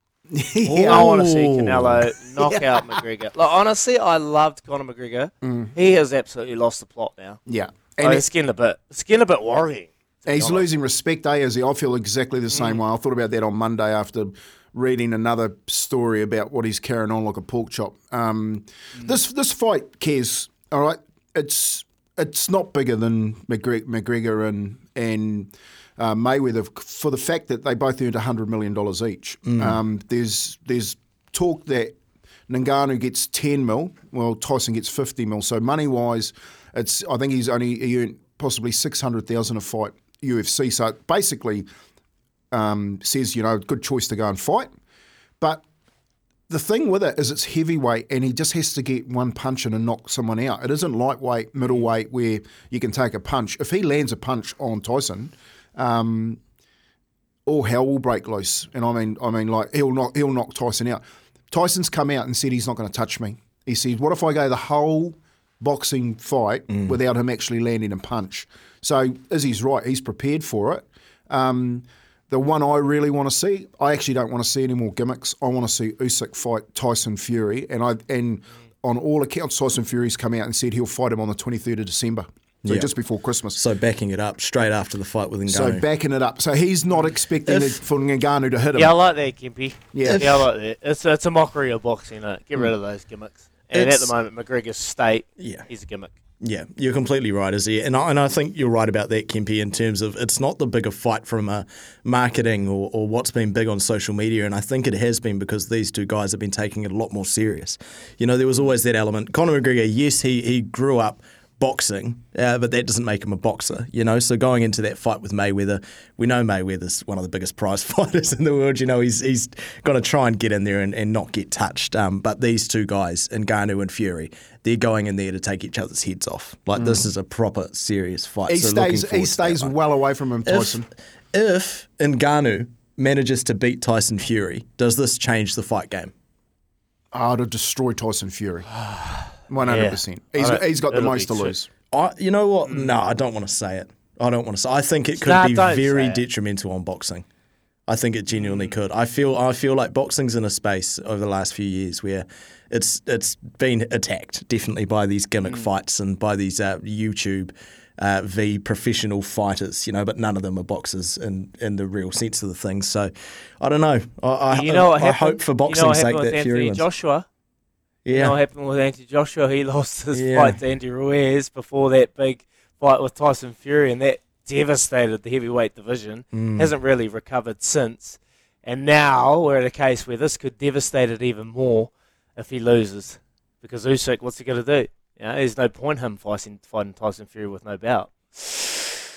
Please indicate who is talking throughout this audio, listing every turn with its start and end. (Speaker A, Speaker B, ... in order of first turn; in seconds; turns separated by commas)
Speaker A: 0.3-1.1, Speaker B: 0.6-7.4, Speaker C: 0.9-2.0, Speaker A: 5.4-5.7, Speaker A: 7.5-8.2, Speaker B: 8.0-10.7, Speaker A: 10.3-31.9, Speaker B: 12.5-12.8, Speaker C: 29.5-29.8, Speaker A: 32.5-41.6, Speaker A: 42.5-44.7, Speaker A: 46.5-56.4, Speaker A: 57.5-83.6, Speaker C: 82.6-82.9, Speaker C: 83.5-85.8, Speaker A: 85.5-88.9, Speaker C: 87.5-87.8, Speaker B: 88.7-96.1, Speaker A: 89.9-90.5, Speaker C: 93.7-94.1, Speaker C: 95.4-95.7, Speaker C: 96.4-129.7, Speaker A: 126.8-127.1, Speaker A: 128.5-130.9, Speaker C: 130.4-136.1, Speaker A: 137.1-138.7, Speaker B: 138.8-141.5, Speaker A: 139.5-141.7, Speaker C: 141.9-147.2, Speaker B: 142.7-142.9, Speaker B: 145.2-146.2, Speaker C: 147.9-166.8, Speaker B: 148.3-148.8, Speaker B: 164.5-167.3, Speaker C: 168.0-168.4, Speaker B: 168.1-188.7, Speaker C: 170.1-170.6, Speaker C: 176.3-176.7